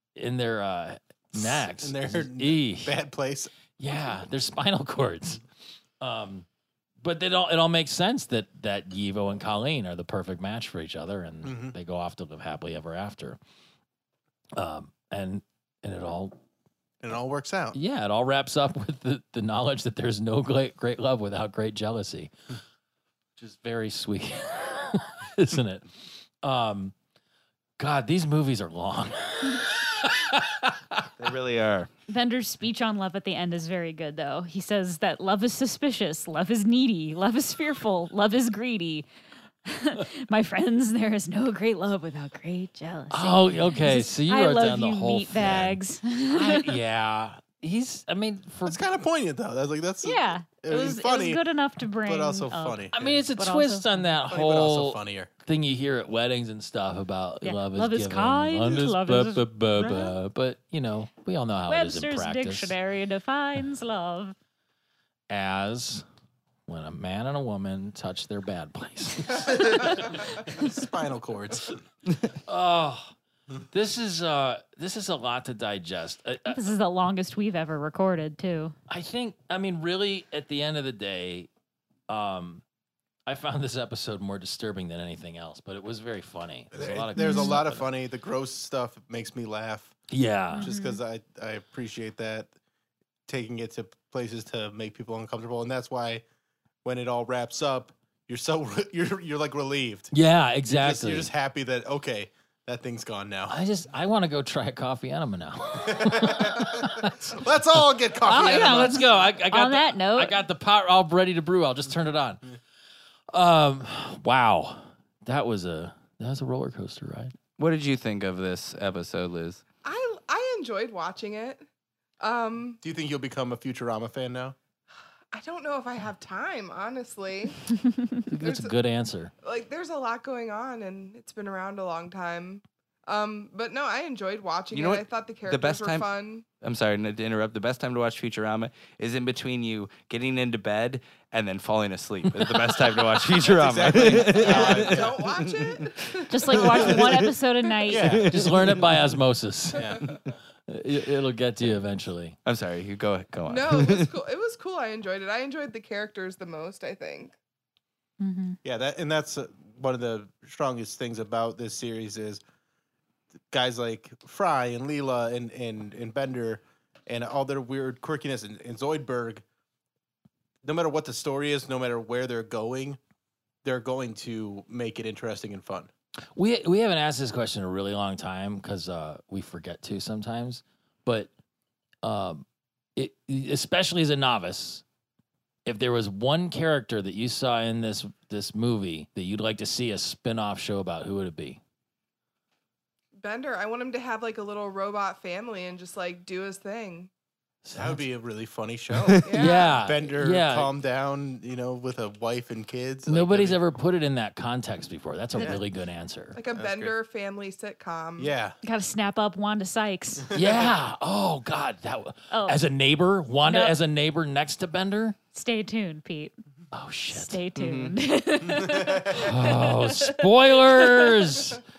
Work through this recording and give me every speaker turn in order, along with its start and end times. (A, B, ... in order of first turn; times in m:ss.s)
0:00.2-0:03.0 A
0:01.3-0:03.5 B
0:03.8-0:05.4 A
0:06.0-0:06.5 A
0:07.0-0:13.4 A
0:11.4-0:11.8 B
0:14.6-0:16.4 A
0:17.0-0:17.8 B
0:17.7-0:22.3 A
0:23.4-0:25.9 A
0:26.4-0:26.9 A
0:27.8-0:31.0 A
0:31.2-0:31.9 C
0:32.1-0:39.1 D
0:39.7-0:46.8 D
0:43.1-0:48.8 A
0:48.7-0:51.4 B
0:50.0-0:54.0 D
0:52.0-0:53.2 B
0:52.9-1:02.8 A
0:54.3-0:55.3 B
0:57.4-1:00.1 D
1:01.7-1:04.4 D
1:05.3-1:06.0 A
1:06.7-1:10.0 A
1:09.6-1:11.8 B
1:09.6-1:09.9 D
1:12.5-1:13.1 A
1:13.7-1:16.7 A
1:16.5-1:18.8 D
1:18.9-1:21.5 A
1:22.1-1:22.6 A
1:23.3-1:27.9 A
1:26.7-1:30.0 B
1:27.2-1:27.5 D
1:30.1-1:30.7 A
1:30.5-1:31.0 D
1:30.6-1:32.5 B
1:33.3-1:36.2 B
1:36.8-1:40.1 B
1:40.1-1:41.3 A
1:40.7-1:43.6 B
1:43.5-1:52.4 A
1:45.8-1:49.1 B
1:48.2-1:50.4 D
1:53.3-1:57.4 A
1:57.6-1:59.6 C
1:59.8-2:01.6 E
2:02.2-2:02.8 E
2:02.8-2:04.6 B
2:05.3-2:07.6 E
2:08.3-2:09.3 A
2:08.4-2:08.7 E
2:09.4-2:16.4 E
2:14.7-2:16.1 C
2:16.6-2:28.8 C
2:23.4-2:25.2 B
2:24.4-2:26.8 E
2:26.3-2:28.2 D
2:26.7-2:27.1 B
2:27.9-2:29.0 B
2:28.3-2:29.9 A
2:29.7-2:30.0 B
2:29.7-2:30.2 E
2:30.7-2:32.4 A
2:32.4-2:34.1 C
2:33.5-2:37.4 E
2:38.2-2:38.6 D
2:38.6-2:42.4 B
2:43.5-2:49.4 B
2:50.6-2:53.0 B
2:53.6-2:55.9 B
2:56.4-3:01.3 A
3:02.0-3:02.4 A
3:03.0-3:04.8 A
3:05.7-3:11.6 A
3:13.2-3:17.1 E
3:17.6-3:18.0 A
3:17.8-3:23.6 B
3:19.2-3:19.8 E
3:19.3-3:20.7 A
3:23.1-3:26.4 A
3:25.4-3:25.6 B
3:26.4-3:28.3 E
3:26.5-3:27.0 B
3:28.2-3:28.6 B
3:28.6-3:30.4 D
3:30.3-3:30.7 B
3:30.3-3:35.2 A
3:32.3-3:32.6 D
3:33.4-3:33.8 D
3:35.3-3:36.4 D
3:36.7-3:37.4 A
3:37.1-3:41.1 D
3:37.6-3:38.0 C
3:39.1-3:41.6 A